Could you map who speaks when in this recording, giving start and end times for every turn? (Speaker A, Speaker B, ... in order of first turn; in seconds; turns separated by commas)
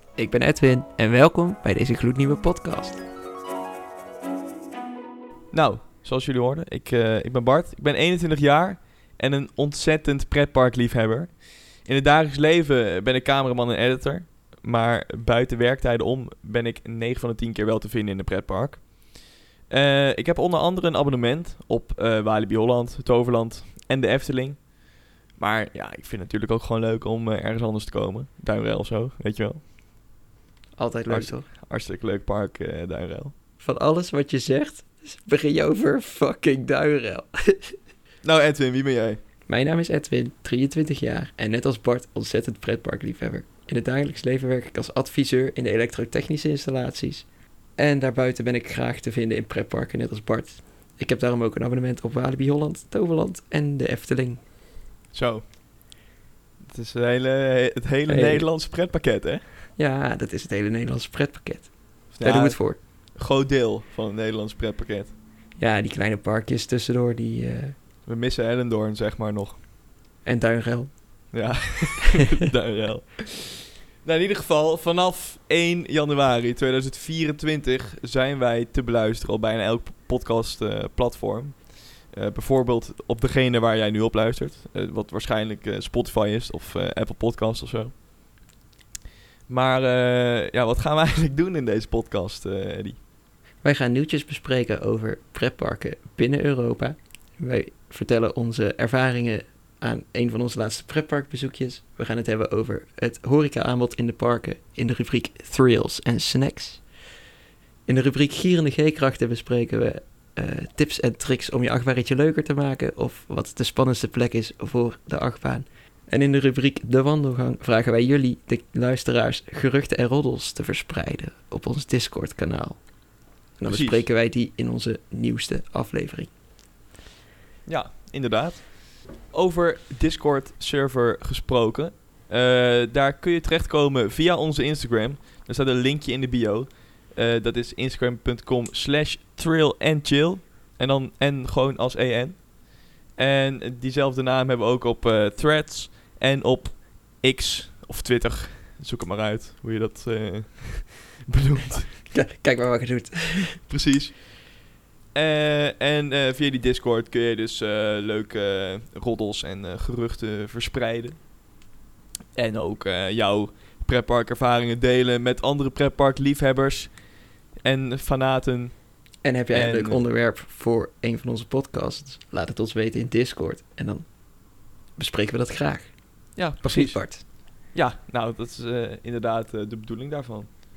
Speaker A: 0.1-3.0, Speaker B: 5.5-29.6, Speaker A: 30.8-31.5, Speaker B: 31.1-33.3, Speaker A: 33.6-37.7, Speaker B: 38.2-39.2, Speaker A: 39.5-54.4, Speaker B: 55.1-55.5, Speaker B: 56.6-59.4, Speaker A: 58.1-58.5, Speaker A: 59.8-62.8, Speaker B: 62.1-65.2, Speaker A: 65.5-67.7, Speaker B: 68.0-69.6, Speaker A: 70.2-71.5, Speaker B: 71.3-88.0, Speaker B: 89.5-93.0, Speaker A: 93.6-107.0, Speaker A: 107.8-126.3, Speaker B: 123.7-124.1, Speaker B: 127.7-152.1, Speaker A: 152.1-153.6, Speaker B: 153.7-154.4, Speaker B: 155.1-161.3, Speaker B: 162.3-170.0, Speaker A: 169.2-177.2, Speaker B: 176.3-180.5